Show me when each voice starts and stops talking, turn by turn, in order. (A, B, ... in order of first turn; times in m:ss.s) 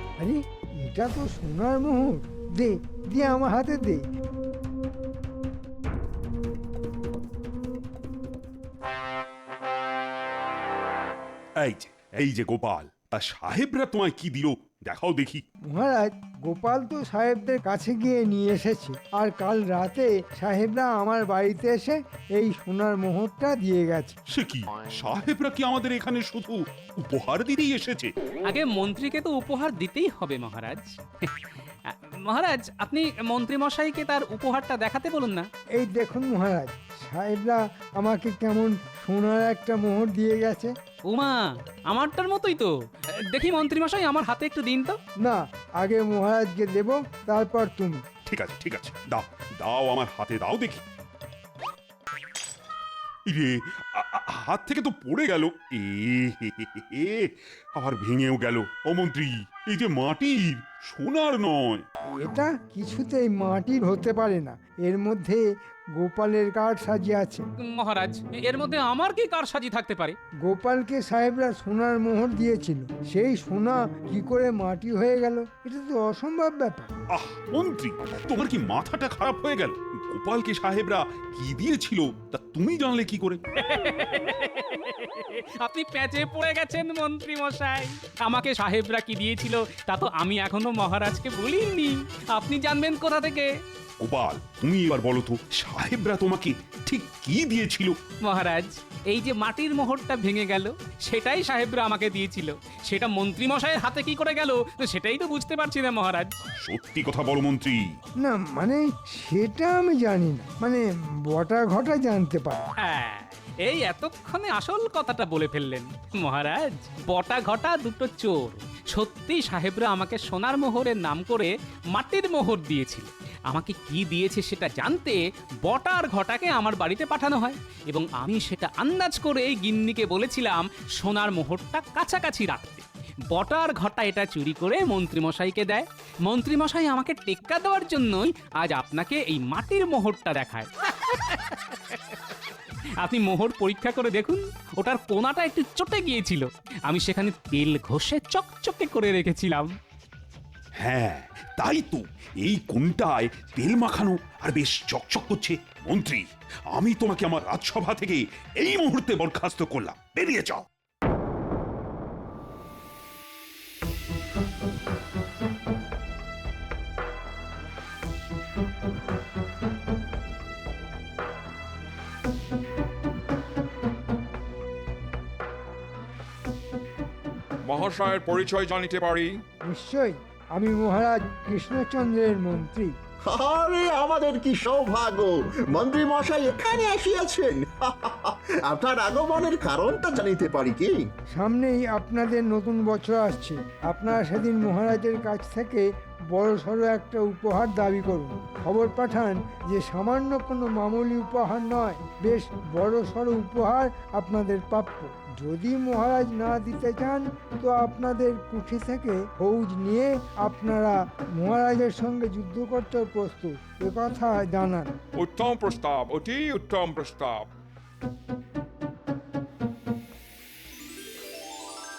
0:00.2-0:04.0 A
0:11.6-0:15.4 B
0:15.7-0:24.2 A
0:24.3-0:28.1 B
0:28.4-0:31.0 C
0:32.2-0:35.4 C
0:35.8-0:40.7 A
0:41.0-0:42.7 C
0:43.3-0:45.0 C
0:45.2-0:48.0 A
0:48.3-0:50.8 B
0:53.3-1:01.8 B
1:02.2-1:05.4 A
1:06.0-1:07.4 A
1:07.7-1:10.2 C
1:10.4-1:16.9 A
1:17.1-1:23.4 B
1:23.6-1:33.5 C
1:34.0-1:38.0 B
1:38.2-1:46.4 C
1:46.6-1:47.9 B
1:48.2-1:52.6 A
1:52.8-2:22.1 C
2:23.0-2:29.7 C
2:30.8-2:40.6 B
2:57.6-2:59.3 D
2:59.7-3:02.9 A
3:03.3-3:11.0 E
3:11.4-3:35.0 A
3:35.2-3:37.5 D